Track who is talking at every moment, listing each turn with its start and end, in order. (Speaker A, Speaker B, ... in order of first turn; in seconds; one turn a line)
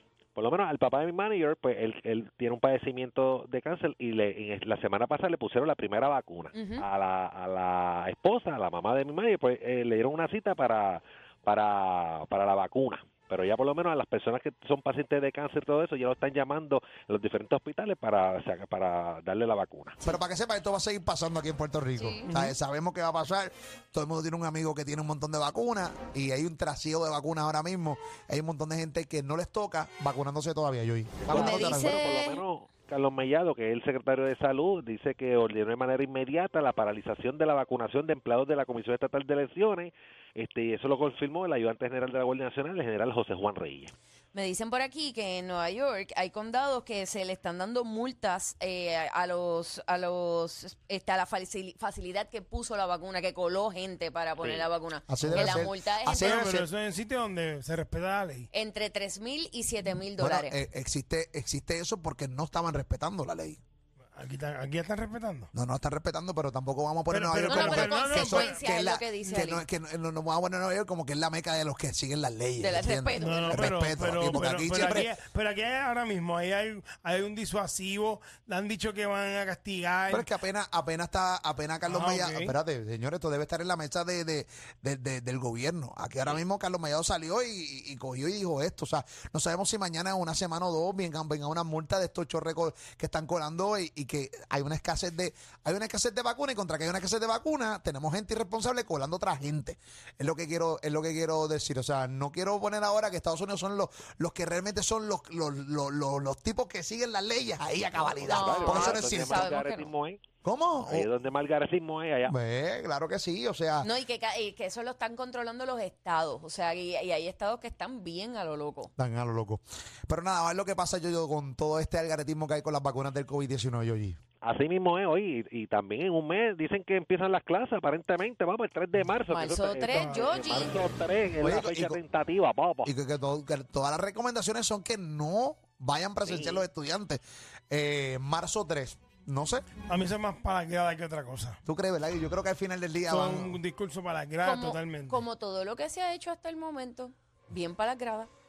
Speaker A: 0.3-20.0
Speaker B: 6.5-6.8
Speaker C: 20.0-32.0
Speaker B: 21.9-22.5
Speaker A: 31.2-43.9
Speaker B: 31.3-32.4
Speaker B: 44.3-56.4
Speaker A: 54.4-54.7
Speaker C: 55.1-56.7
Speaker D: 55.2-58.5
Speaker B: 58.5-60.5
Speaker C: 60.2-63.6
Speaker D: 64.1-65.5
Speaker C: 65.5-75.1
Speaker D: 67.1-68.6
Speaker B: 67.4-69.6
Speaker B: 72.6-73.7
Speaker D: 73.2-80.3
Speaker C: 80.1-109.5
Speaker D: 81.8-82.5
Speaker A: 107.9-110.2
Speaker B: 108.3-109.9
Speaker C: 110.4-111.1
Speaker A: 110.8-112.3
Speaker C: 112.2-113.9
Speaker B: 113.8-118.9
Speaker C: 119.0-124.2
Speaker A: 124.4-132.9
Speaker B: 129.3-130.8
Speaker D: 129.9-130.2
Speaker C: 131.4-132.0
Speaker C: 132.8-139.7
Speaker A: 136.3-136.6
Speaker D: 139.9-141.6
Speaker C: 141.6-143.6
Speaker D: 143.1-145.2
Speaker B: 144.4-148.3